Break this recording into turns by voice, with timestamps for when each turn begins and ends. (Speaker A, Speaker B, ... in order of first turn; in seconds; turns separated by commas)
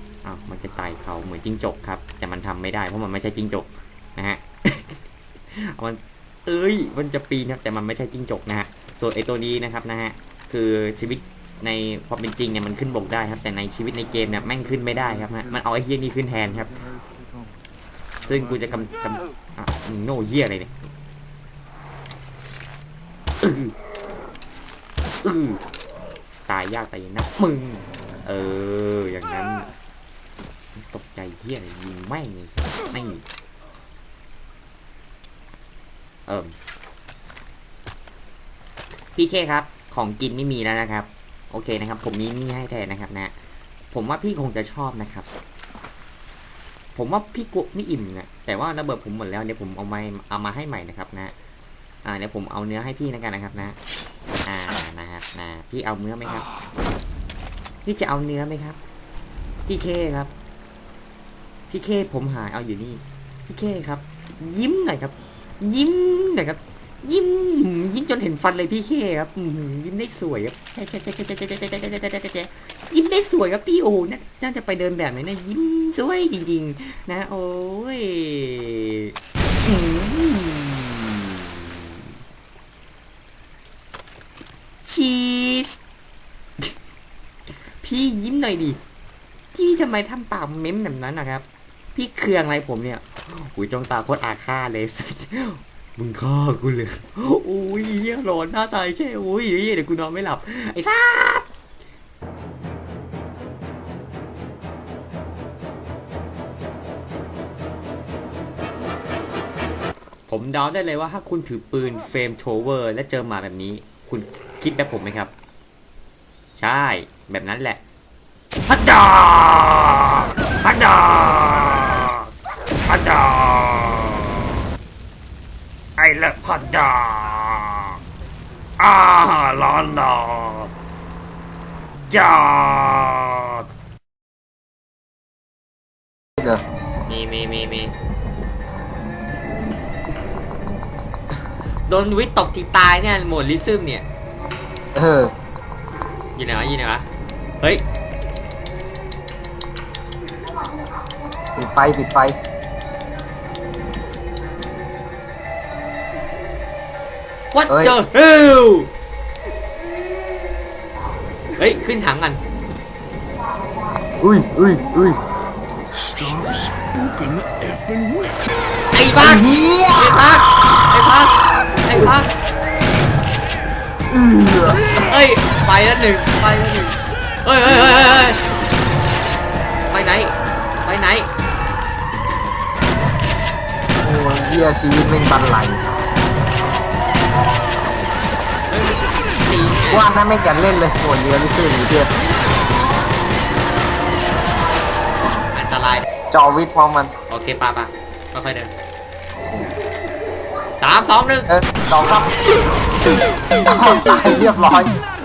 Speaker A: 0.2-16.8, Speaker A: 18.3-20.7, Speaker A: 23.4-23.7, Speaker A: 25.2-25.6, Speaker A: 26.5-29.7, Speaker A: 30.8-33.2, Speaker A: 36.3-36.5, Speaker A: 39.2-43.3, Speaker A: 43.9-45.3, Speaker A: 47.0-51.3, Speaker A: 52.0-53.8, Speaker A: 54.5-56.5, Speaker A: 57.9-58.8, Speaker A: 59.7-60.3, Speaker A: 61.7-82.0, Speaker A: 84.8-85.8, Speaker A: 87.8-88.8, Speaker A: 89.5-101.5, Speaker A: 110.3-115.3, Speaker A: 116.6-117.8, Speaker A: 118.7-122.3, Speaker A: 122.9-124.6, Speaker A: 126.0-128.0, Speaker A: 128.8-130.7, Speaker A: 132.1-133.7, Speaker A: 137.1-137.9, Speaker A: 141.9-144.1, Speaker B: 144.9-145.3, Speaker A: 146.4-147.1, Speaker B: 151.6-152.4, Speaker A: 157.5-158.9, Speaker B: 157.7-157.9, Speaker A: 161.6-162.4, Speaker B: 164.2-165.2, Speaker C: 166.1-168.5, Speaker A: 168.9-172.3, Speaker B: 169.2-170.2, Speaker B: 174.1-174.8, Speaker A: 174.6-178.4, Speaker A: 179.9-181.3, Speaker B: 184.0-186.0, Speaker A: 188.7-190.1, Speaker B: 189.9-192.1, Speaker A: 192.3-192.6, Speaker A: 195.5-196.1, Speaker B: 196.3-197.1, Speaker A: 197.3-198.7, Speaker A: 200.8-201.5, Speaker B: 201.5-202.4, Speaker B: 203.7-205.0